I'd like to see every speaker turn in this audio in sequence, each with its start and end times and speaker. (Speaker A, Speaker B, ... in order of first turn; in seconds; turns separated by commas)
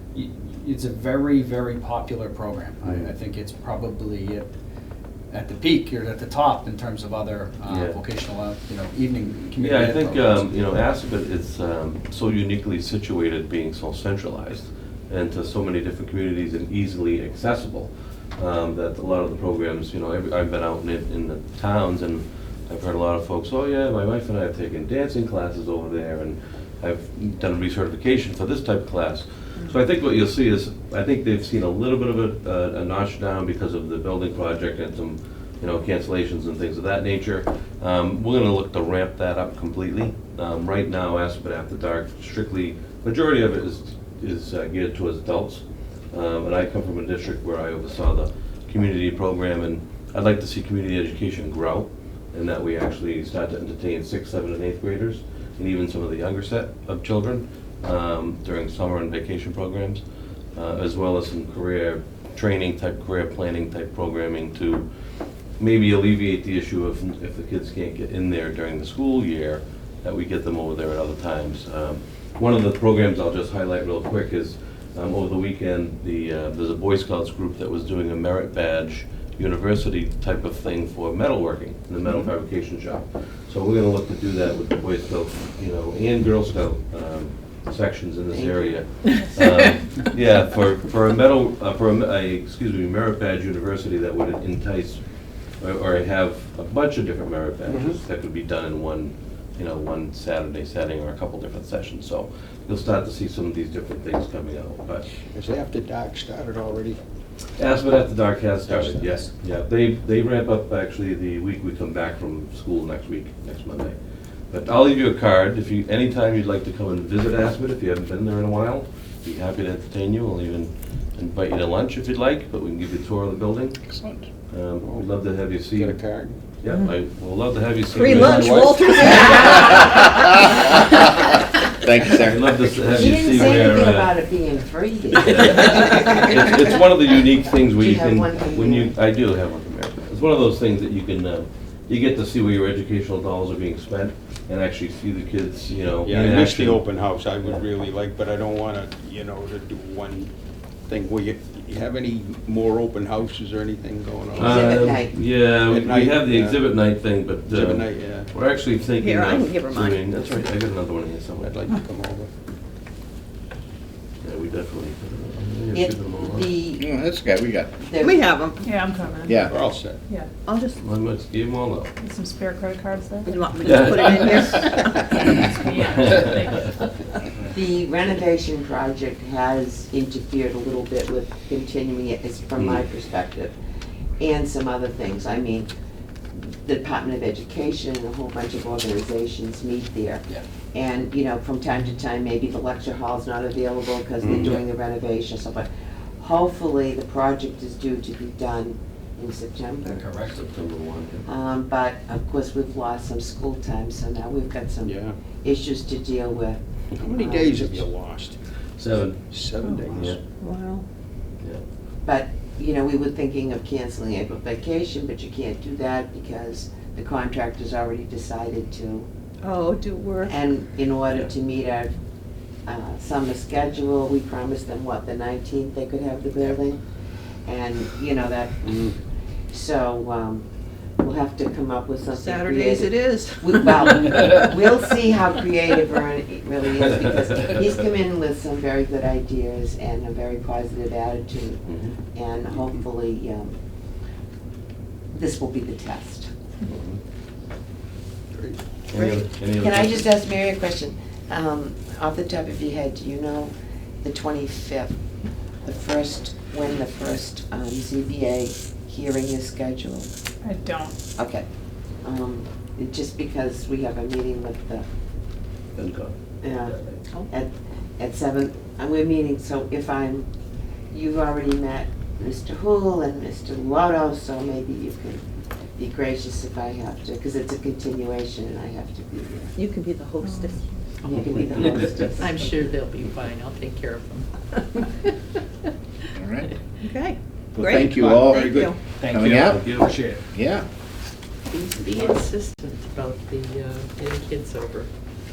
Speaker A: 0.1-4.5, Speaker A: 5.3-10.5, Speaker B: 7.7-8.0, Speaker B: 9.5-60.0, Speaker B: 60.5-64.8, Speaker B: 65.6-95.0, Speaker C: 88.3-88.8, Speaker B: 95.6-105.0, Speaker D: 97.7-98.0, Speaker D: 105.3-107.0, Speaker B: 107.6-113.9, Speaker D: 108.7-109.2, Speaker B: 114.5-123.8, Speaker E: 123.8-124.2, Speaker B: 124.5-126.0, Speaker D: 124.8-125.1, Speaker D: 125.7-126.4, Speaker B: 126.6-129.8, Speaker D: 127.9-129.3, Speaker F: 128.0-129.3, Speaker E: 129.8-131.0, Speaker E: 131.8-132.7, Speaker B: 132.1-134.2, Speaker C: 132.8-136.8, Speaker B: 135.1-146.8, Speaker C: 137.8-138.9, Speaker D: 146.0-150.3, Speaker D: 150.9-154.9, Speaker B: 154.3-161.6, Speaker C: 154.3-155.2, Speaker D: 155.6-156.6, Speaker D: 157.5-158.3, Speaker F: 159.0-159.9, Speaker D: 161.4-162.3, Speaker B: 164.2-166.5, Speaker C: 165.7-166.9, Speaker E: 166.8-167.7, Speaker C: 167.8-168.3, Speaker G: 168.6-170.3, Speaker E: 169.2-169.5, Speaker D: 169.5-170.0, Speaker F: 170.5-170.8, Speaker B: 170.8-171.9, Speaker G: 172.0-173.5, Speaker F: 173.4-174.8, Speaker B: 173.6-176.7, Speaker G: 175.3-176.7, Speaker C: 177.5-183.5, Speaker B: 182.6-182.8, Speaker C: 184.2-185.7, Speaker C: 186.3-200.1, Speaker D: 194.2-194.6, Speaker A: 199.8-200.4, Speaker B: 200.3-201.2, Speaker C: 201.2-207.9, Speaker D: 204.8-205.2, Speaker D: 207.0-208.4, Speaker B: 208.8-209.4, Speaker D: 208.9-210.2, Speaker G: 209.6-210.0, Speaker B: 209.9-210.2, Speaker C: 212.0-219.1, Speaker F: 219.5-220.3, Speaker C: 220.2-221.9, Speaker C: 222.7-226.8, Speaker C: 227.4-228.9, Speaker D: 228.7-228.9, Speaker C: 229.5-230.4, Speaker C: 231.0-241.6, Speaker B: 241.7-241.9, Speaker C: 242.1-243.5, Speaker C: 245.1-246.3, Speaker B: 246.7-247.0, Speaker D: 248.3-248.6, Speaker B: 248.9-250.1, Speaker C: 248.9-255.0, Speaker C: 255.6-260.1, Speaker G: 260.4-261.0, Speaker C: 261.1-261.4, Speaker C: 262.0-264.9, Speaker B: 265.8-266.1, Speaker C: 266.4-270.3, Speaker B: 266.6-267.0, Speaker C: 270.9-275.2, Speaker C: 275.8-279.5, Speaker F: 279.6-280.5, Speaker G: 280.2-280.8, Speaker H: 281.0-284.8, Speaker C: 281.0-282.4, Speaker B: 281.4-281.9, Speaker E: 286.1-286.5, Speaker E: 287.5-288.6, Speaker D: 287.6-288.7, Speaker A: 287.7-290.2, Speaker E: 289.1-289.6, Speaker B: 289.3-289.9, Speaker E: 290.3-290.6, Speaker H: 291.5-294.9